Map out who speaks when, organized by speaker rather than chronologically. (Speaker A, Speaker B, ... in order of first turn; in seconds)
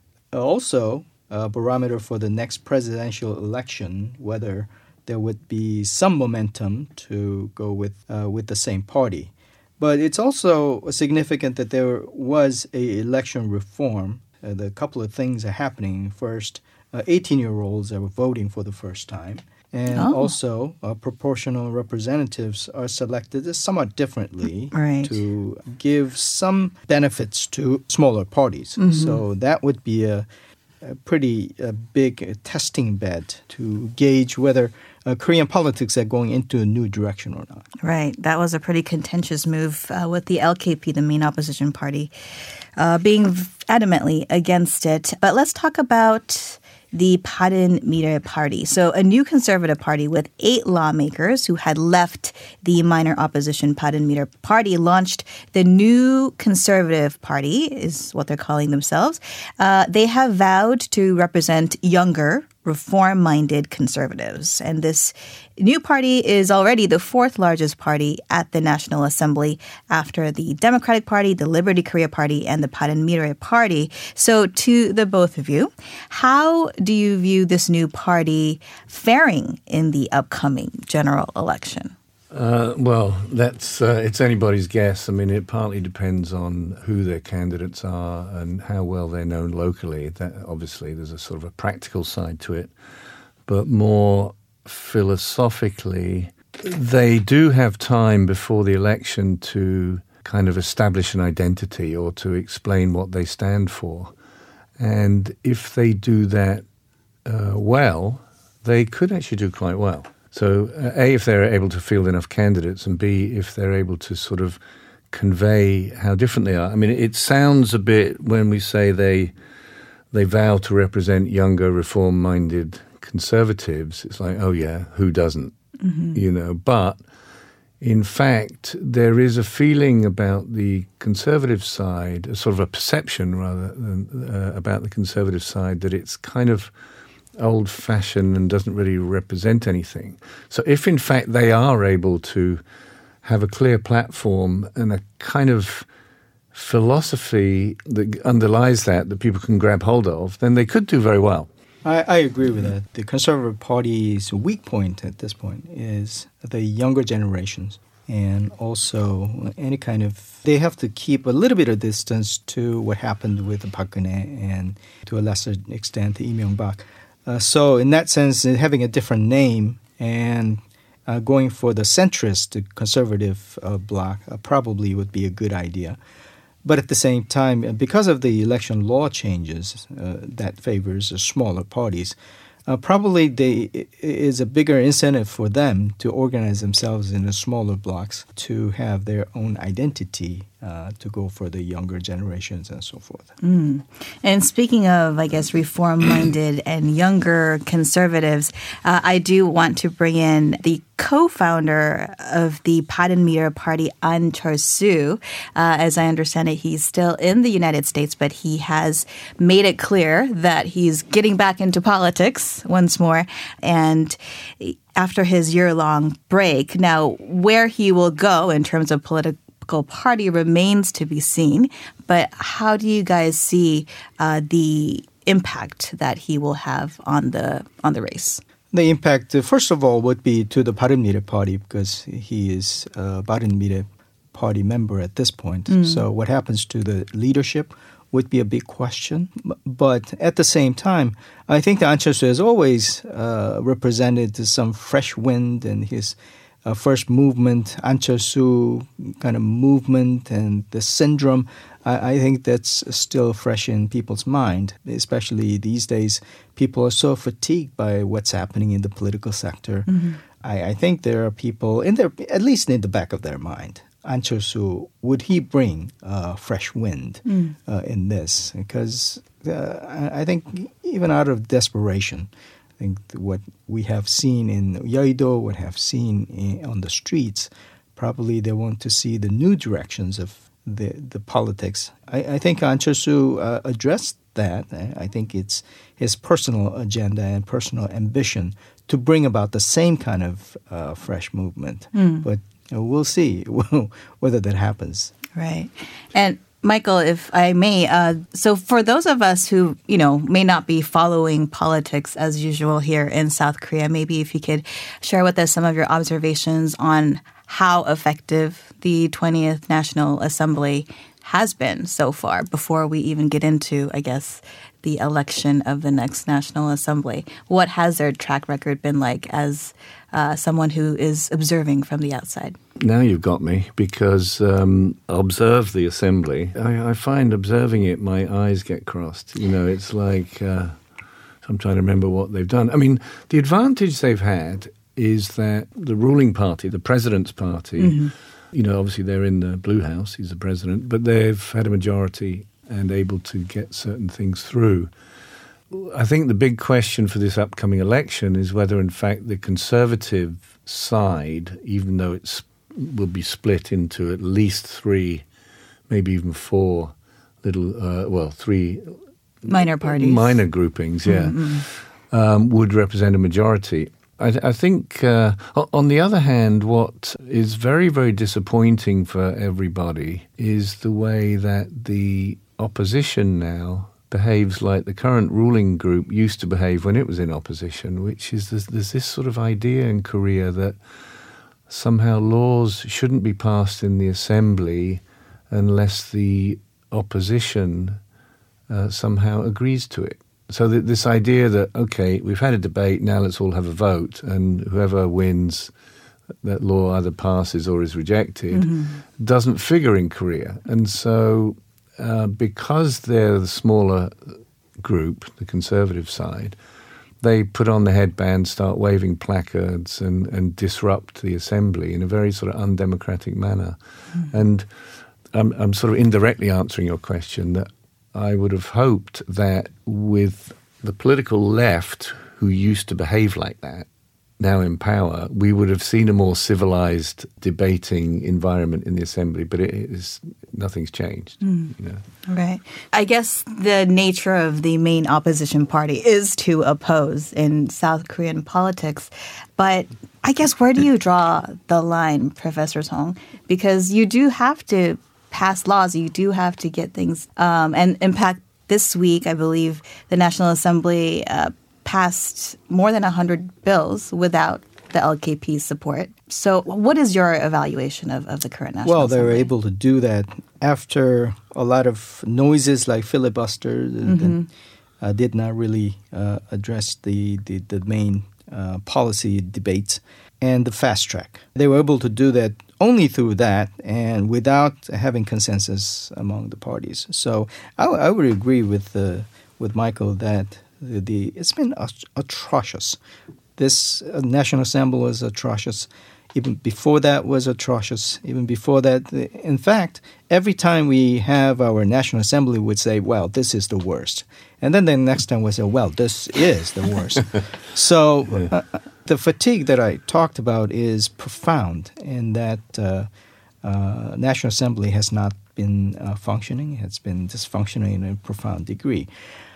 Speaker A: 0.3-30.3, 30.8-37.6, 151.8-176.0, 176.6-193.3, 228.7-295.1, 458.8-464.4, 465.0-483.0, 483.6-503.1, 503.6-509.1
Speaker B: 19.9-20.3, 24.7-25.2, 28.8-29.2, 37.8-42.1, 42.8-81.9, 125.8-126.2, 193.4-228.4, 235.7-236.0, 259.9-260.2, 267.2-267.6, 291.9-292.2, 295.3-322.6, 337.8-338.1, 359.4-360.4, 361.1-361.6, 398.5-399.0, 431.4-431.7, 432.3-459.5, 464.0-464.5
Speaker C: 82.3-92.7, 93.5-104.1, 104.8-106.6, 107.2-114.6, 115.1-119.3, 120.1-125.5, 126.1-127.0, 127.8-136.7, 137.4-142.6, 143.2-145.9, 146.5-151.5, 322.8-330.8, 331.4-338.0, 338.5-344.9, 345.7-355.2, 355.9-380.8, 381.7-388.0, 388.7-395.7, 396.4-406.6, 407.2-414.6, 415.3-423.9, 424.4-432.0